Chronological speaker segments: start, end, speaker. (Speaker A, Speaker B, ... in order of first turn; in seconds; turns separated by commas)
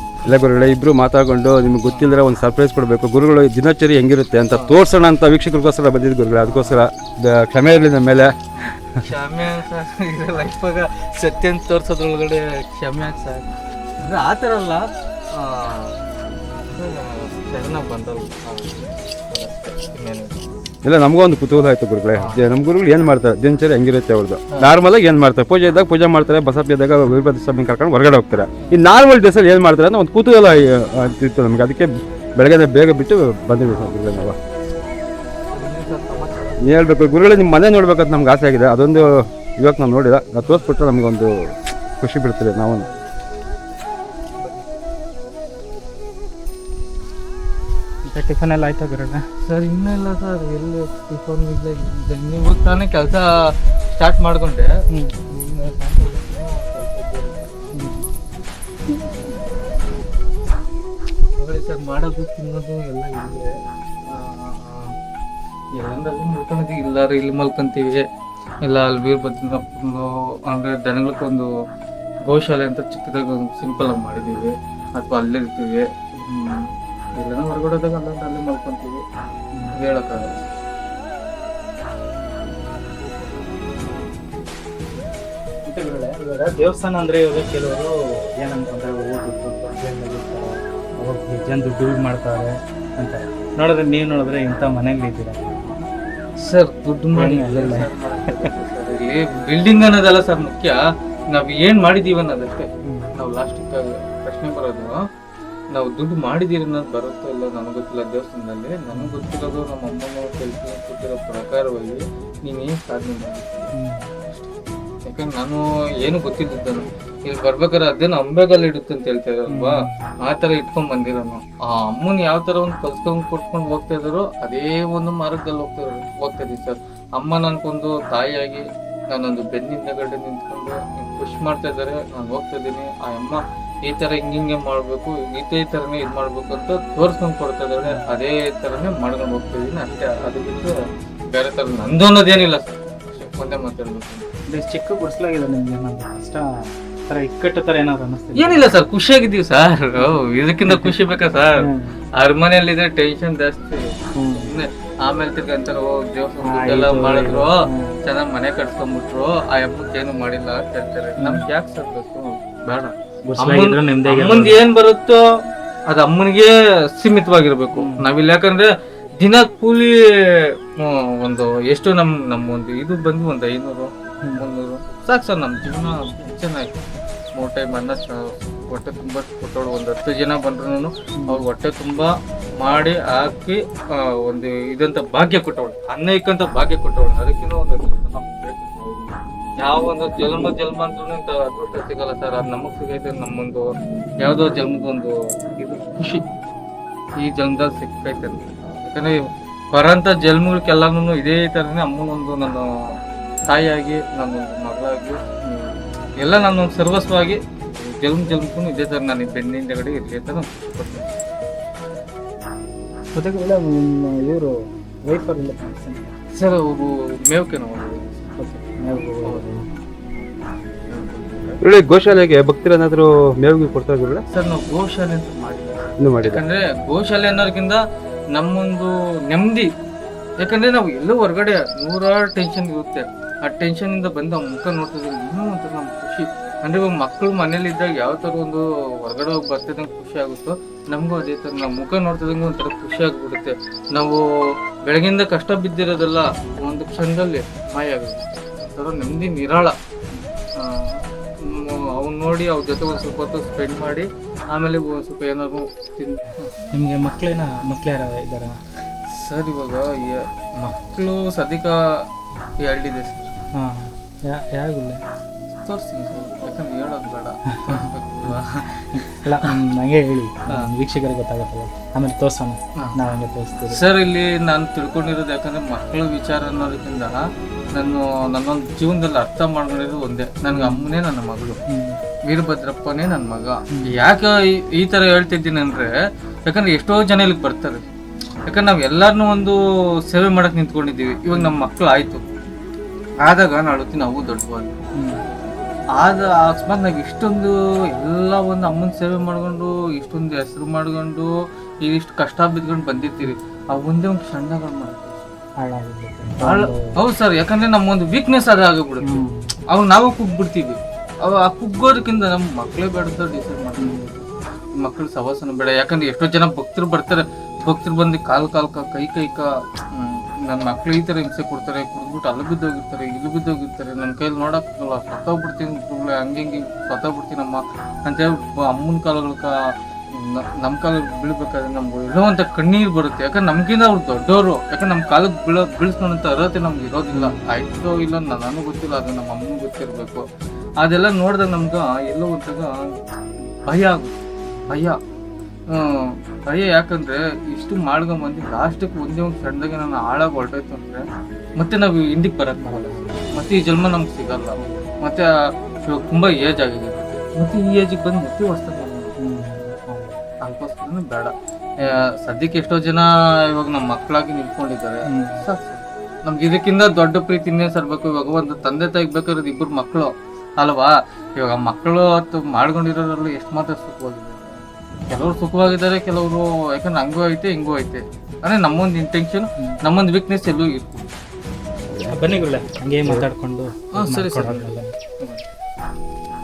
Speaker A: 0.2-9.0, Speaker B: 1.8-2.1, Speaker B: 6.4-6.8, Speaker B: 8.6-13.5, Speaker B: 14.0-16.0, Speaker B: 16.7-20.4, Speaker A: 20.8-34.4, Speaker B: 22.1-22.4, Speaker B: 24.5-24.8, Speaker B: 35.5-36.6, Speaker A: 36.6-42.9, Speaker B: 40.4-40.7, Speaker B: 44.4-44.7, Speaker C: 48.0-49.2, Speaker B: 49.4-54.7, Speaker B: 55.2-57.8, Speaker C: 57.7-58.0, Speaker B: 61.4-65.0, Speaker B: 65.7-68.1, Speaker B: 68.6-71.5, Speaker B: 72.2-79.0, Speaker B: 79.7-80.4, Speaker C: 85.7-95.8, Speaker B: 96.4-105.0, Speaker C: 97.1-98.5, Speaker C: 102.8-103.1, Speaker B: 105.7-113.7, Speaker C: 108.9-109.2, Speaker C: 113.7-114.1, Speaker B: 115.0-140.8, Speaker C: 119.5-120.1, Speaker C: 137.8-138.1, Speaker B: 141.3-144.2, Speaker C: 144.5-148.6, Speaker B: 148.3-165.2, Speaker C: 150.0-150.9, Speaker C: 151.6-151.9, Speaker C: 154.1-154.5, Speaker C: 156.4-158.0, Speaker C: 161.2-161.4, Speaker C: 163.2-164.6, Speaker B: 165.9-176.7, Speaker C: 167.7-168.1, Speaker B: 177.3-193.7, Speaker C: 181.2-181.4, Speaker B: 194.2-196.2, Speaker B: 197.2-202.7, Speaker B: 203.5-211.1, Speaker C: 213.1-216.2, Speaker B: 216.3-218.2, Speaker C: 218.4-219.6, Speaker B: 219.1-219.5, Speaker B: 220.9-221.6, Speaker A: 221.6-224.2, Speaker B: 224.3-227.8, Speaker A: 226.0-226.4, Speaker B: 228.3-229.7, Speaker B: 230.4-244.2, Speaker B: 244.8-249.7, Speaker B: 250.6-256.5, Speaker C: 256.7-258.5, Speaker B: 259.1-262.1, Speaker B: 262.6-263.3, Speaker C: 263.5-265.0, Speaker B: 265.5-269.5, Speaker C: 267.5-268.3, Speaker C: 268.9-273.8, Speaker B: 273.7-277.1, Speaker B: 277.7-281.6, Speaker C: 280.5-280.9, Speaker C: 281.7-282.0, Speaker B: 282.2-285.9, Speaker C: 283.7-284.0, Speaker B: 286.4-287.8, Speaker B: 288.4-292.2, Speaker C: 291.3-291.6, Speaker B: 293.2-294.7, Speaker C: 294.9-295.2, Speaker B: 296.0-301.3, Speaker B: 301.8-305.2, Speaker C: 305.6-306.9, Speaker B: 306.4-314.2, Speaker C: 309.0-309.5, Speaker C: 313.8-314.1, Speaker B: 314.8-329.5, Speaker B: 330.1-340.2, Speaker C: 337.1-337.4, Speaker B: 340.8-345.0, Speaker B: 345.7-355.3, Speaker C: 352.6-353.6, Speaker C: 354.6-354.9, Speaker B: 355.8-359.1, Speaker C: 359.2-360.2, Speaker B: 360.4-381.1, Speaker C: 365.1-365.4, Speaker A: 381.9-382.4, Speaker C: 382.1-384.9, Speaker B: 383.9-385.4